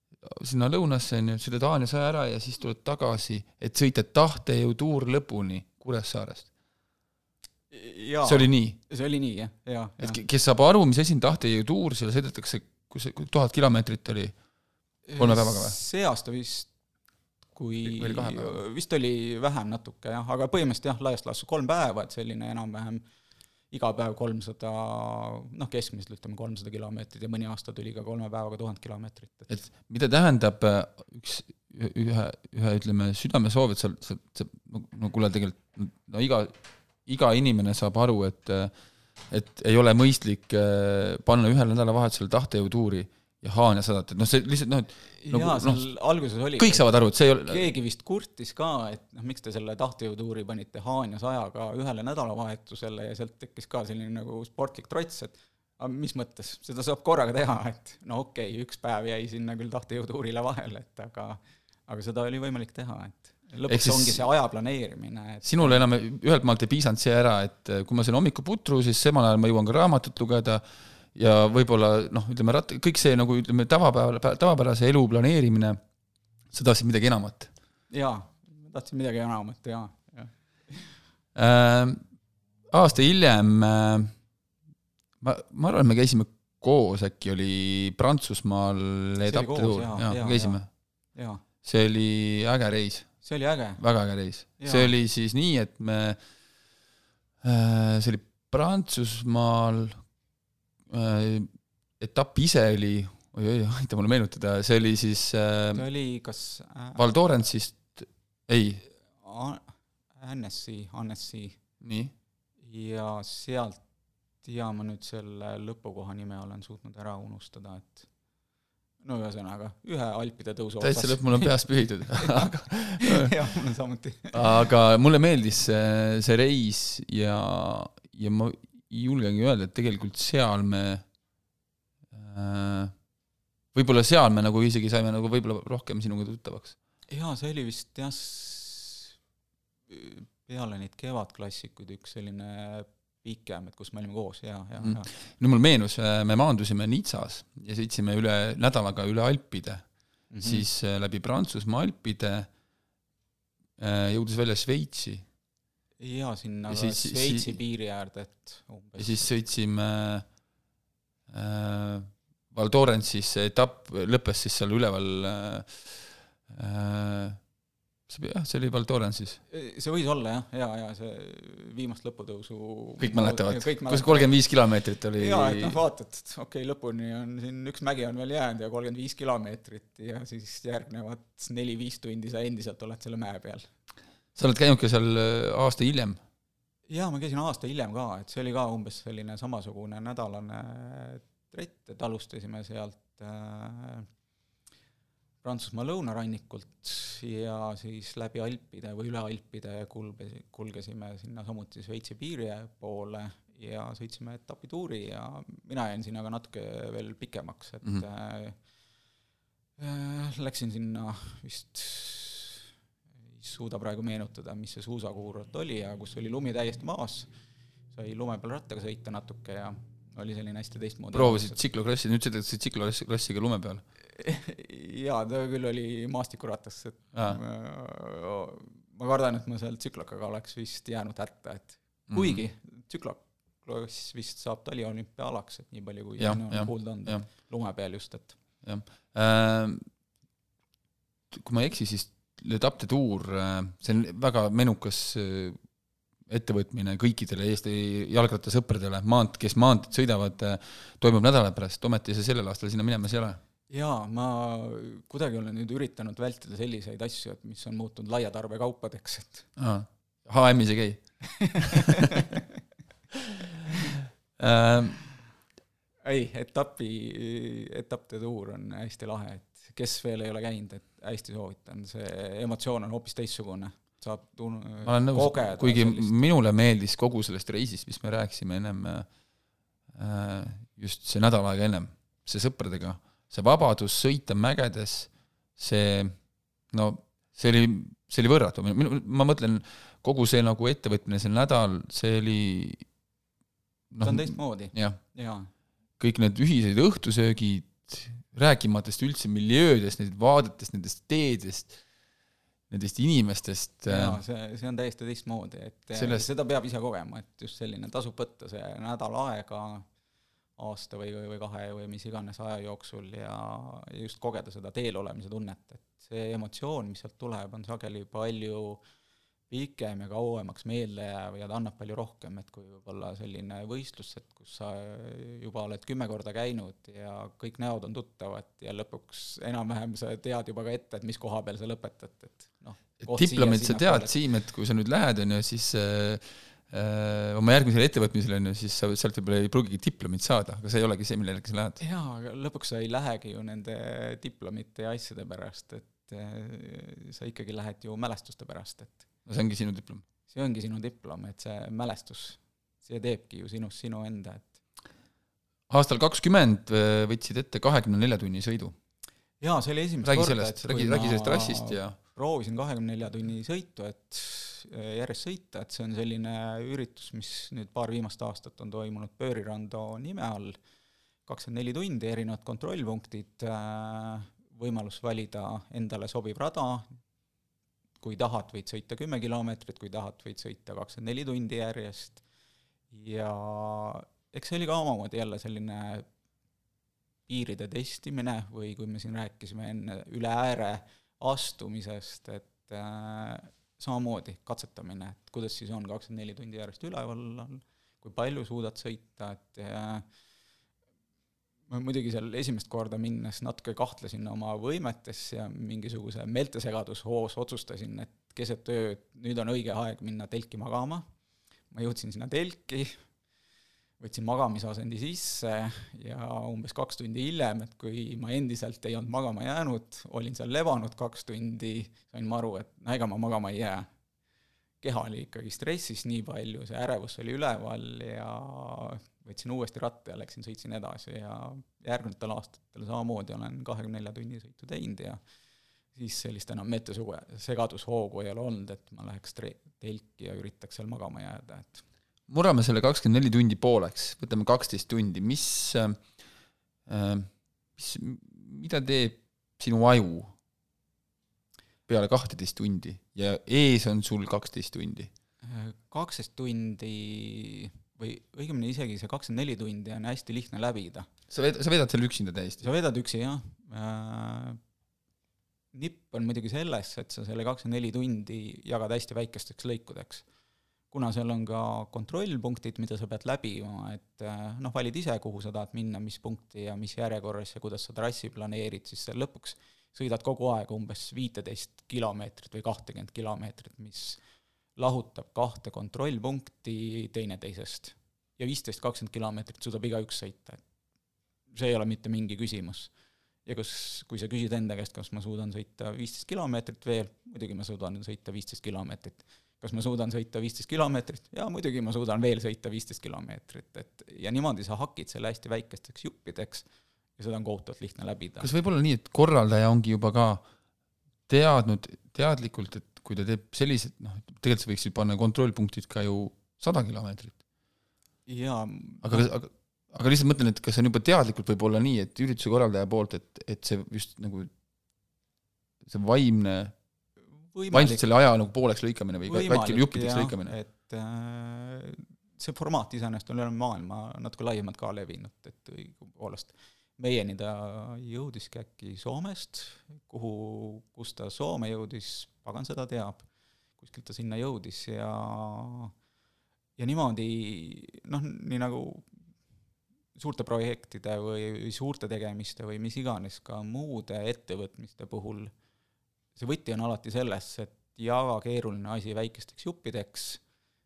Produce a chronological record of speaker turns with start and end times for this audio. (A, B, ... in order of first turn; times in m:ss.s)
0:00.2-0:06.5 A
0:07.7-0:10.2 B
0:08.2-0:08.8 A
0:10.0-0:14.3 A
0:15.1-0:16.7 B
0:15.2-0:15.8 A
0:17.5-0:23.0 B
0:17.9-0:18.6 A
0:23.7-0:29.5 B
0:29.5-0:36.6 A
0:37.0-0:38.7 A
0:39.3-0:45.9 A
0:45.2-0:46.9 B
0:46.6-0:47.7 A
0:47.4-1:05.8 B
1:03.7-1:04.2 A
1:05.4-1:10.6 A
1:11.1-1:15.8 A
1:16.5-1:17.5 A
1:17.9-1:21.0 B
1:21.3-1:22.0 A
1:22.7-1:24.1 A
1:25.2-1:30.7 A
1:29.3-1:30.6 B
1:31.2-1:31.4 B
1:31.6-1:33.1 A
1:33.2-1:33.8 B
1:33.8-1:36.2 A
1:34.6-1:34.9 B
1:37.4-1:40.0 A
1:40.9-1:45.8 A
1:45.7-1:47.0 B
1:47.0-1:48.8 A
1:49.2-1:51.6 B
1:51.8-1:52.1 A
1:52.6-1:53.8 B
1:54.4-1:58.0 B
1:59.0-2:01.6 B
2:00.8-2:03.3 A
2:02.1-2:04.7 B
2:04.3-2:11.0 A
2:12.1-2:12.9 A
2:13.7-2:16.8 A
2:17.1-2:19.1 B
2:19.9-2:25.1 B
2:24.8-2:29.8 A
2:30.3-2:30.6 B
2:30.4-2:32.5 A
2:33.8-2:35.2 A
2:36.0-2:39.3 B
2:36.7-2:37.6 A
2:39.0-2:40.3 A
2:41.3-2:47.4 A
2:48.1-2:49.4 A
2:49.5-2:54.3 B
2:53.0-2:55.8 A
2:55.2-3:03.7 B
3:04.4-3:06.2 A
3:06.9-3:14.1 B
3:15.4-3:28.6 B
3:29.8-3:32.6 B
3:33.4-3:37.3 B
3:37.9-3:41.6 B
3:41.1-3:43.8 A
3:44.2-3:58.4 B
3:47.1-3:47.4 A
3:52.1-3:52.4 A
3:56.2-3:57.3 A
3:58.6-3:59.9 A
4:01.3-4:05.6 A
4:06.3-4:13.4 A
4:13.7-4:19.5 B
4:19.6-4:21.0 A
4:21.4-4:22.4 B
4:21.6-4:22.0 A
4:23.7-4:24.0 B
4:24.4-4:25.0 A
4:26.0-4:36.1 B
4:34.8-4:39.1 A
4:39.9-4:46.1 A
4:46.7-4:52.9 A
4:53.9-4:55.0 A
4:54.0-4:55.5 B
4:56.0-5:01.8 A
5:02.7-5:04.2 A
5:03.9-5:09.9 B
5:06.0-5:06.3 A
5:10.6-5:18.8 B
5:19.5-5:34.1 B
5:33.0-5:41.8 A
5:41.8-5:49.0 B
5:49.3-5:50.0 A
5:50.3-5:54.6 B
5:55.7-5:58.7 A
5:59.4-6:10.6 B
6:00.0-6:02.0 A
6:11.3-6:16.9 B
6:18.0-6:22.2 B
6:22.9-6:26.0 B
6:27.3-6:40.0 B
6:41.7-6:51.0 B
6:51.7-6:53.0 B
6:54.0-7:03.9 B
7:04.8-7:15.2 B
7:16.0-7:21.8 B
7:22.3-7:26.0 A
7:26.9-7:30.3 A
7:31.9-7:35.1 A
7:35.4-7:41.1 B
7:41.3-7:42.6 A
7:42.6-7:44.6 B
7:45.7-7:50.2 B
7:50.9-8:04.2 B
8:04.8-8:10.6 B
8:11.5-8:12.9 B
8:13.4-8:26.6 B
8:27.2-8:28.5 B
8:28.4-8:30.4 A
8:31.3-8:37.4 A
8:38.3-8:39.3 B
8:39.0-8:44.5 A
8:45.8-8:46.7 A
8:47.5-8:48.0 B
8:47.7-8:50.6 A
8:49.3-9:03.3 B
9:03.8-9:05.9 B
9:06.8-9:09.1 B
9:10.2-9:15.5 B
9:16.3-9:20.4 B